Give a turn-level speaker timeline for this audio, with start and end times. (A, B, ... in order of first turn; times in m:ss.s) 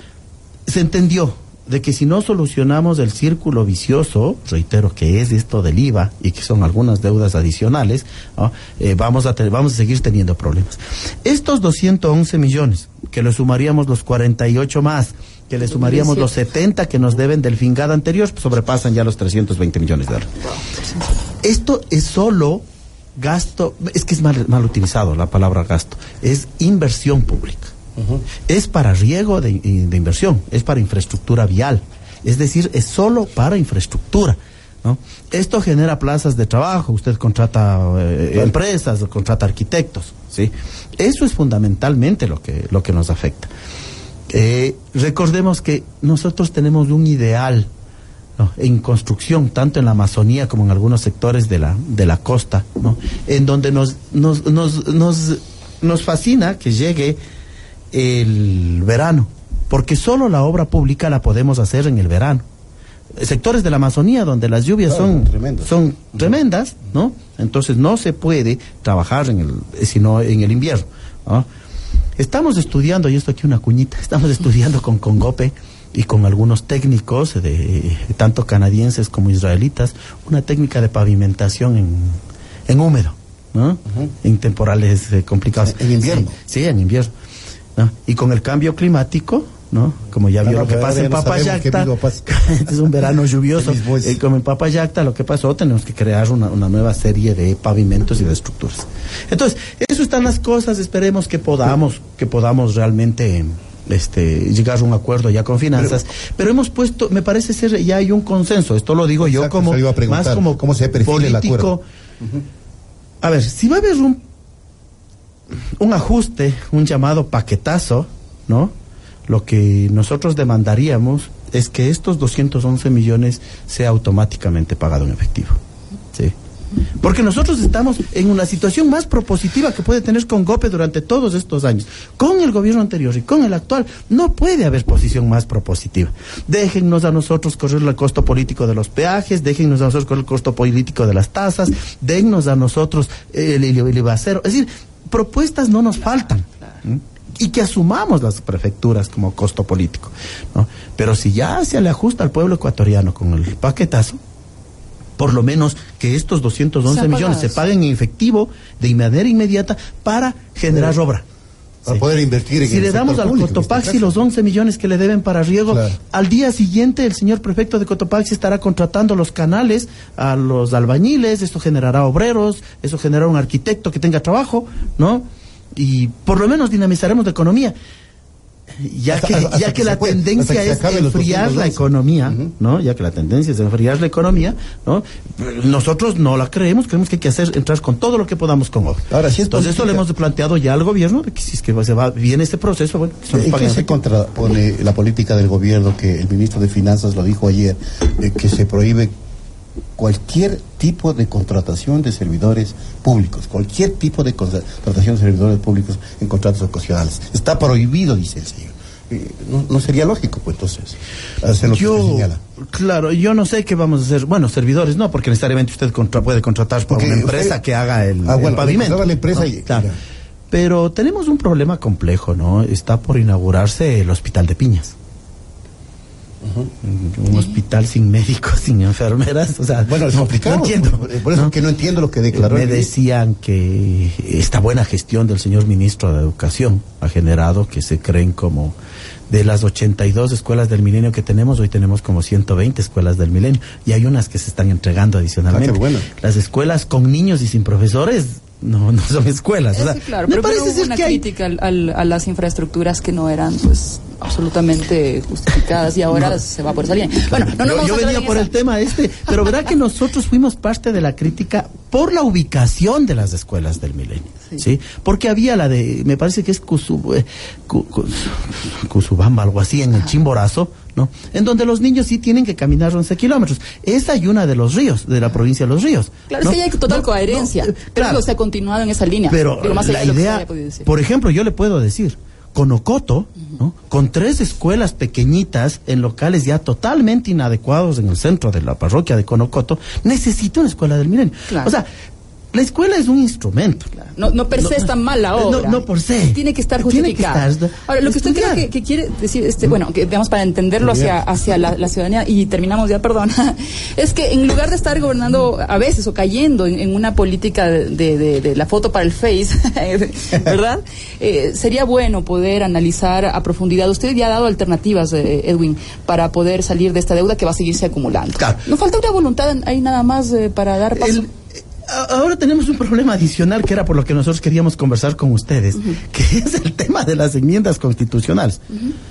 0:00.7-0:20.3 A
0:15.7-0:16.3 B
0:21.4-0:22.6 A
0:23.2-0:27.7 A
0:28.5-0:43.5 A
0:44.3-0:47.7 A
0:48.4-0:57.2 A
0:57.9-1:02.4 A
1:03.2-1:11.4 A
1:04.9-1:05.7 C
1:12.2-1:27.1 A
1:25.6-1:26.4 C
1:27.8-1:51.8 A
1:30.4-1:32.3 C
1:33.6-1:34.2 C
1:49.2-1:52.4 C
1:53.2-1:54.2 A
1:55.8-1:58.7 A
1:59.3-2:05.6 A
2:07.0-2:34.2 A
2:35.2-2:41.2 A
2:36.9-2:37.6 B
2:41.8-2:44.2 C
2:42.6-2:57.7 A
2:45.7-2:46.0 C
2:58.8-3:13.9 A
2:59.1-3:02.5 C
3:09.1-3:10.0 C
3:13.3-3:19.1 C
3:20.0-3:32.4 C
3:31.7-3:39.9 A
3:36.9-3:37.6 C
3:38.2-3:40.0 C
3:40.5-3:44.9 A
3:46.4-3:46.7 C
3:46.8-3:51.5 A
3:49.9-3:52.9 C
3:52.3-3:58.7 A
3:59.3-4:11.2 A
4:05.5-4:06.1 C
4:09.7-4:18.5 B
4:17.3-4:38.2 A
4:36.3-4:40.9 B
4:39.3-4:51.9 A
4:52.5-4:53.9 A
4:54.0-5:21.3 B
4:54.5-4:58.7 A
5:00.8-5:01.2 C
5:20.9-5:28.6 A